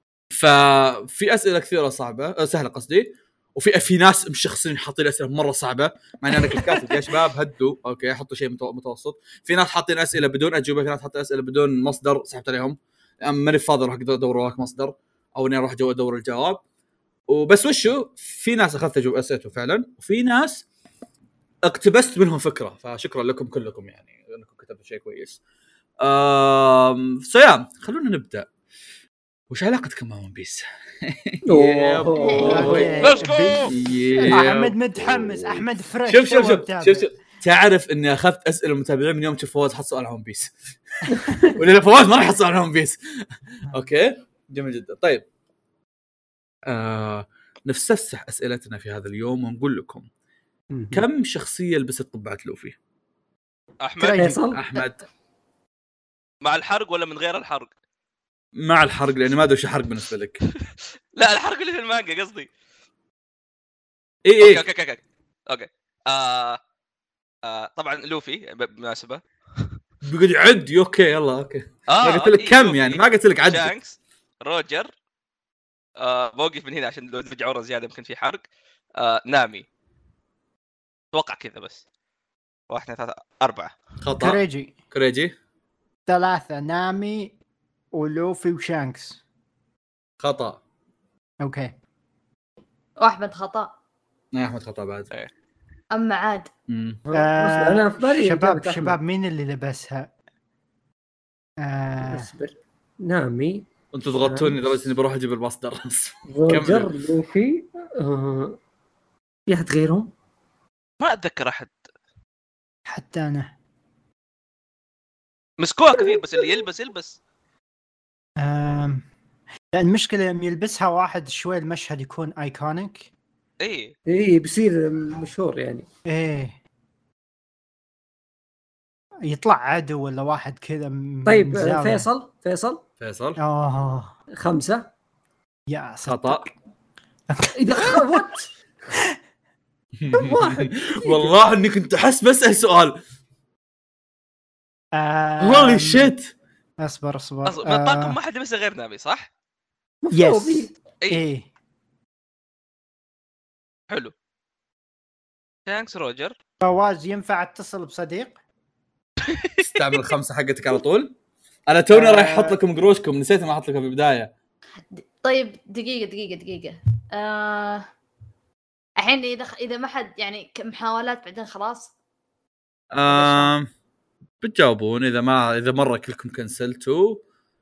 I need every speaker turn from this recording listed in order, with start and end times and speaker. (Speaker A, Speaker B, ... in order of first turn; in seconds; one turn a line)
Speaker A: 0.3-16.6
Speaker A: 17.3-20.6
Speaker A: 21.6-25.4
Speaker A: 26.0-28.5
Speaker A: 29.5-43.0
Speaker B: 31.4-33.1
Speaker C: 32.2-32.8
Speaker D: 32.5-33.7
Speaker E: 33.0-33.7
Speaker D: 34.3-37.0
Speaker A: 43.7-45.2
Speaker A: 46.7-50.1
Speaker B: 50.7-51.0
Speaker A: 50.9-52.8
Speaker E: 53.8-54.3
Speaker D: 54.0-54.4
Speaker B: 54.1-54.6
Speaker A: 54.5-55.0
Speaker E: 56.4-57.7
Speaker A: 58.6-60.4
Speaker E: 61.1-62.5
Speaker A: 64.2-64.6
Speaker E: 64.4-66.6
Speaker E: 67.4-69.7
Speaker A: 70.0-73.7
Speaker E: 71.9-74.9
Speaker E: 76.0-78.4
Speaker E: 79.0-79.7
Speaker E: 81.1-81.8
Speaker E: 82.7-83.7
Speaker A: 84.0-85.3
Speaker D: 84.2-84.7
Speaker D: 86.1-87.3
Speaker D: 87.9-89.2
Speaker A: 90.2-90.6
Speaker D: 91.4-91.7
Speaker C: 93.0-93.7
Speaker A: 94.3-95.1
Speaker C: 95.9-96.5
Speaker A: 96.7-97.0
Speaker B: 97.0-99.0
Speaker D: 97.1-100.1
Speaker D: 101.6-102.3
Speaker B: 102.0-103.6
Speaker A: 103.9-106.9
Speaker B: 104.2-104.6
Speaker B: 106.3-108.6
Speaker B: 109.5-110.1
Speaker E: 111.0-111.9
Speaker D: 112.8-113.5
Speaker E: 115.6-117.2
Speaker D: 118.4-119.0
Speaker D: 119.7-123.1
Speaker E: 123.6-123.9
Speaker B: 124.1-125.9
Speaker D: 126.1-126.6
Speaker D: 129.3-132.1
Speaker B: 131.2-132.8
Speaker A: 133.0-133.4
Speaker D: 133.4-134.1
Speaker B: 134.3-134.9
Speaker D: 135.7-136.5
Speaker A: 136.1-136.4
Speaker D: 137.3-138.2
Speaker B: 137.6-138.5
Speaker A: 140.0-143.0
Speaker B: 140.1-141.3
Speaker D: 144.9-146.1
Speaker A: 145.4-146.3
Speaker D: 146.8-148.2
Speaker E: 147.4-149.3
Speaker B: 150.0-150.7
Speaker D: 150.1-151.5
Speaker E: 155.7-156.3
Speaker D: 156.6-158.4
Speaker A: 159.6-161.1
Speaker A: 161.7-164.3
Speaker D: 161.9-162.6
Speaker C: 164.8-167.8
Speaker C: 169.0-171.9
Speaker A: 172.9-173.7
Speaker C: 173.1-173.5
Speaker A: 174.4-177.2